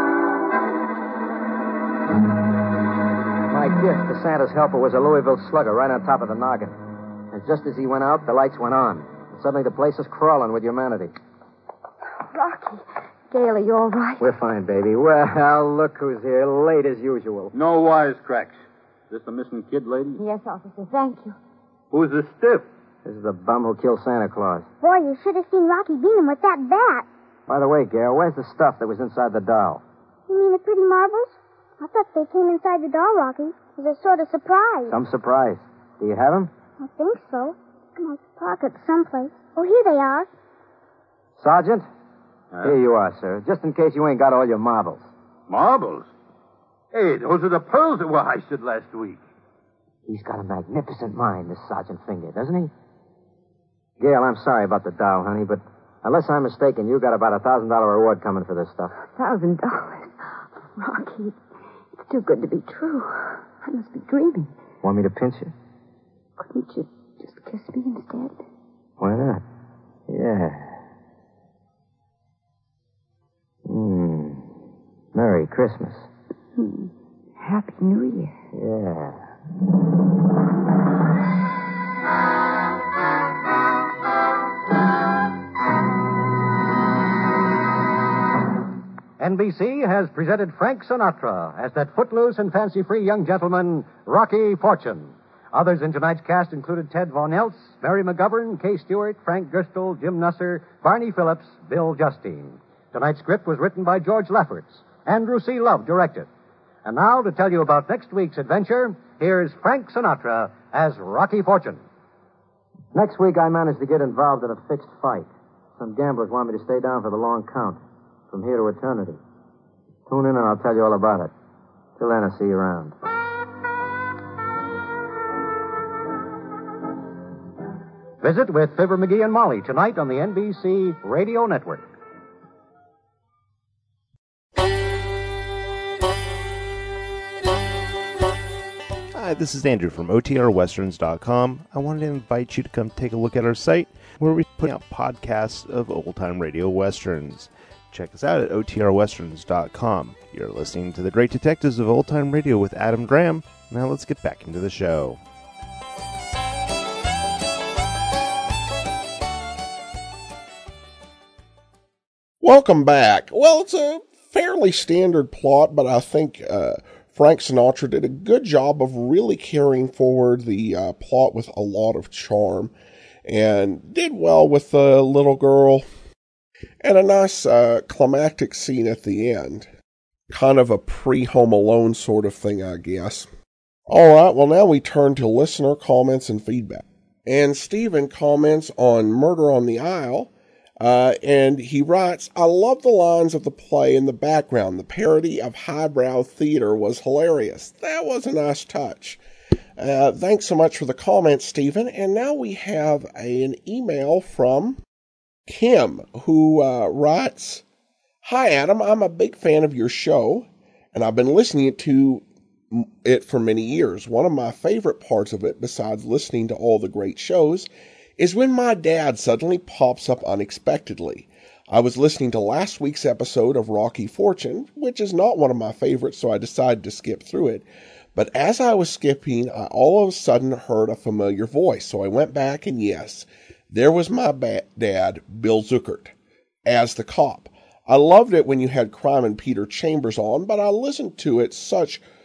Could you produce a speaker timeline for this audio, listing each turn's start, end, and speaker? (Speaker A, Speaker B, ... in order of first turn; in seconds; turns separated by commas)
Speaker A: 3.5-6.8, Speaker A: 7.3-11.1, Speaker B: 12.2-14.2, Speaker A: 14.2-17.5, Speaker C: 17.5-18.6, Speaker C: 19.1-20.2, Speaker B: 20.2-21.4, Speaker C: 21.9-22.6, Speaker A: 23.0-24.7, Speaker D: 24.8-27.1, Speaker A: 27.5-29.8, Speaker D: 30.3-34.9, Speaker A: 34.9-36.5, Speaker D: 36.8-40.3, Speaker A: 41.4-41.9, Speaker A: 42.6-45.1, Speaker C: 45.5-46.1, Speaker C: 46.9-49.2, Speaker A: 50.0-52.7, Speaker A: 54.0-58.9, Speaker B: 59.1-61.4, Speaker B: 62.0-64.5, Speaker A: 64.8-65.5, Speaker B: 66.4-68.4, Speaker A: 69.0-69.4, Speaker A: 70.1-70.8, Speaker A: 73.7-74.5, Speaker A: 75.1-76.1, Speaker B: 76.5-78.3, Speaker A: 78.5-79.3, Speaker E: 89.2-106.3, Speaker E: 106.8-111.8, Speaker A: 112.9-119.2, Speaker A: 120.1-121.3, Speaker A: 122.0-122.9, Speaker E: 128.2-131.8, Speaker F: 139.1-155.2, Speaker G: 162.4-172.7, Speaker G: 173.2-175.8, Speaker G: 176.8-179.7, Speaker G: 180.3-183.3, Speaker G: 183.9-199.2, Speaker G: 199.8-204.8, Speaker G: 205.5-207.6, Speaker G: 208.2-236.1, Speaker G: 236.7-242.0